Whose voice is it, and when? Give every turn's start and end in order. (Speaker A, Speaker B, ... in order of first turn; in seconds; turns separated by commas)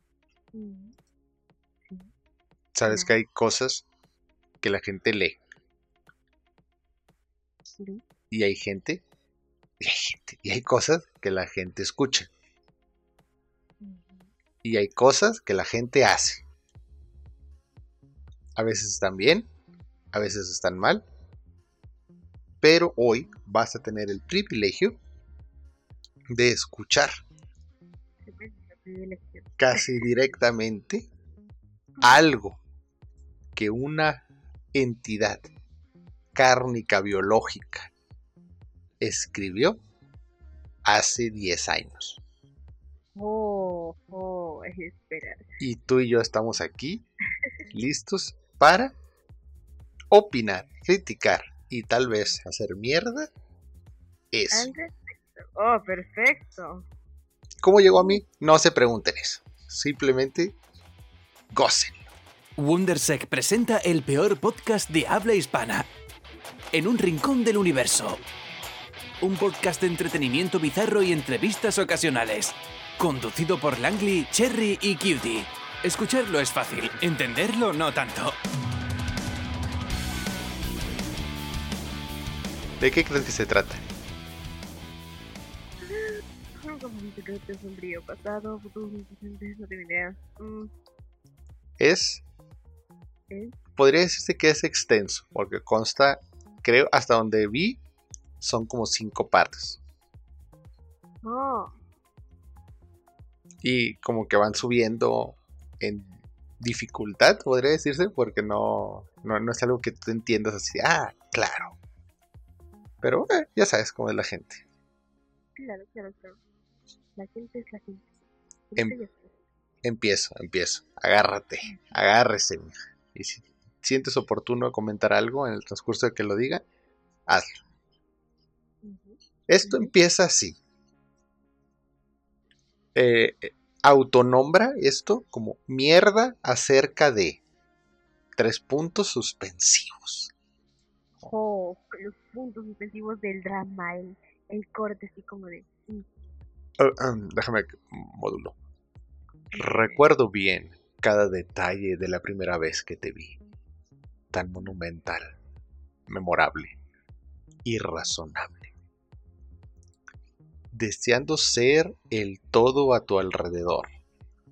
Speaker A: 0.5-0.9, Speaker B: 2.7-3.8, Speaker A: 2.9-3.1, Speaker B: 4.6-5.4, Speaker A: 7.8-8.0, Speaker B: 8.3-9.0, Speaker B: 9.8-12.3, Speaker A: 13.8-14.3, Speaker B: 14.6-16.4, Speaker B: 18.6-19.5, Speaker B: 20.1-21.0, Speaker B: 22.6-25.0, Speaker B: 26.3-27.2, Speaker A: 28.2-30.0, Speaker B: 29.6-31.1, Speaker B: 32.0-32.6, Speaker B: 33.5-34.2, Speaker B: 34.7-35.5, Speaker B: 36.3-37.9, Speaker B: 39.0-39.8, Speaker B: 40.8-42.2, Speaker A: 43.1-45.5, Speaker B: 45.6-47.0, Speaker B: 47.7-48.9, Speaker B: 50.1-53.3, Speaker B: 54.3-54.7, Speaker A: 54.5-56.9, Speaker B: 57.6-60.5, Speaker A: 57.9-58.2, Speaker B: 61.5-62.1, Speaker C: 62.6-65.9, Speaker C: 66.7-68.2, Speaker C: 69.2-78.4, Speaker B: 82.8-83.8, Speaker A: 85.8-90.7, Speaker B: 91.8-92.2, Speaker A: 93.3-93.5, Speaker B: 93.8-97.8, Speaker B: 98.4-99.8, Speaker A: 101.2-101.7, Speaker B: 103.6-111.8, Speaker B: 113.0-114.6, Speaker A: 115.5-116.4, Speaker A: 117.2-118.2, Speaker A: 118.7-119.3, Speaker B: 119.8-126.6, Speaker B: 127.3-127.6, Speaker A: 128.8-129.9, Speaker B: 129.5-130.6, Speaker B: 132.9-137.4, Speaker B: 138.3-140.3, Speaker A: 141.2-146.1, Speaker B: 146.8-148.6, Speaker A: 149.5-150.0, Speaker B: 149.6-153.4, Speaker B: 154.3-155.3, Speaker B: 156.1-156.8, Speaker B: 157.6-158.7, Speaker B: 160.7-163.9